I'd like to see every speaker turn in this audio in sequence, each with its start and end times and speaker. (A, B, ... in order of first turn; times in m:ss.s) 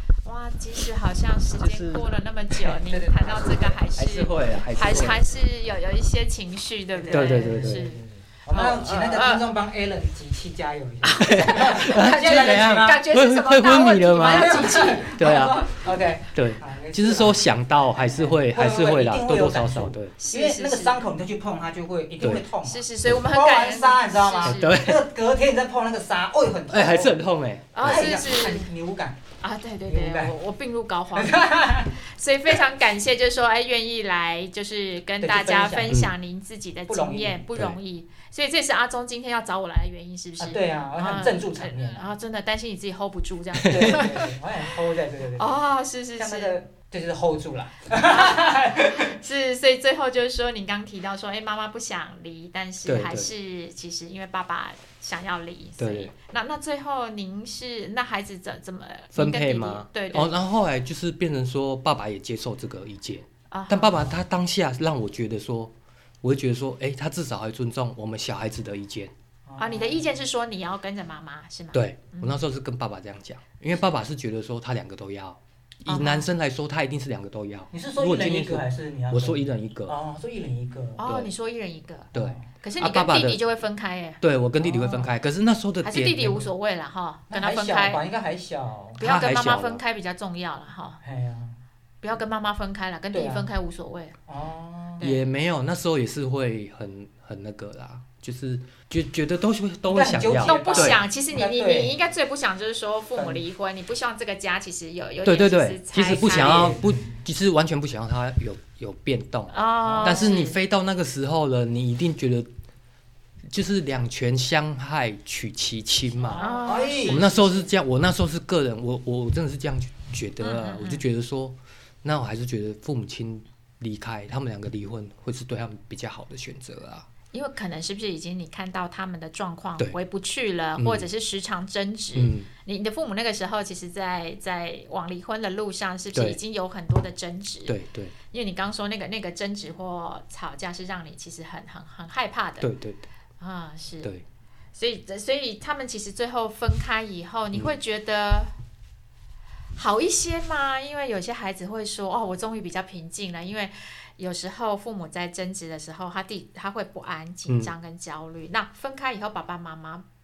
0:00.2-0:09.5 A
0:01.6-0:02.6 B
0:02.8-0:03.8 C
0:04.0-0:05.2 B
0:06.9-0:13.0 C
0:07.1-0:07.8 B
0:11.0-0:15.8 A
0:11.2-0:15.7 B
0:14.1-0:27.2 C
0:16.3-0:20.1 B
0:20.2-0:21.0 A
0:22.2-0:22.4 B
0:22.6-0:24.8 A
0:24.4-0:25.0 B
0:26.7-0:28.1 B
0:27.7-0:28.7 A
0:27.8-0:29.2 C
0:29.4-0:44.3 A
0:29.9-0:30.4 C
0:31.1-0:31.9 C
0:35.2-0:36.0 C
0:35.9-0:36.1 B
0:36.9-0:37.5 C
0:40.4-0:42.1 C
0:43.6-0:44.0 B
0:43.6-0:45.6 C
0:45.4-0:46.6 A
0:46.2-0:49.2 C
0:48.1-1:00.4 A
0:52.8-0:53.3 B
0:55.8-0:56.1 B
0:59.1-1:09.1 B
1:03.5-1:04.2 A
1:09.5-1:10.2 C
1:09.6-1:12.4 A
1:11.7-1:20.0 B
1:15.9-1:16.3 A
1:17.7-1:21.1 C
1:21.0-1:25.1 A
1:22.1-1:22.4 C
1:22.1-1:23.4 B
1:24.2-1:26.5 B
1:24.6-1:24.9 C
1:25.8-1:28.0 A
1:27.3-1:29.0 C
1:29.0-1:31.0 A
1:29.0-1:29.8 B
1:31.0-1:31.6 C
1:32.0-1:34.1 A
1:33.1-1:33.5 C
1:34.3-1:35.2 C
1:35.0-1:41.0 B
1:39.9-1:42.0 C
1:40.4-1:46.6 A
1:43.2-1:43.4 C
1:45.2-1:52.5 B
1:46.2-1:47.2 C
1:49.5-1:50.6 A
1:49.8-1:50.4 C
1:53.5-1:56.4 B
1:56.2-1:57.3 C
1:56.3-1:57.6 A
1:57.0-2:07.1 B
2:00.4-2:01.0 A
2:07.3-2:17.8 A
2:10.8-2:11.1 B
2:12.1-2:12.5 B
2:16.1-2:16.4 B
2:17.6-2:18.1 B
2:18.3-2:22.7 A
2:22.6-2:23.1 B
2:23.4-2:24.1 A
2:24.7-2:28.5 A
2:29.8-2:40.0 A
2:37.5-2:37.7 B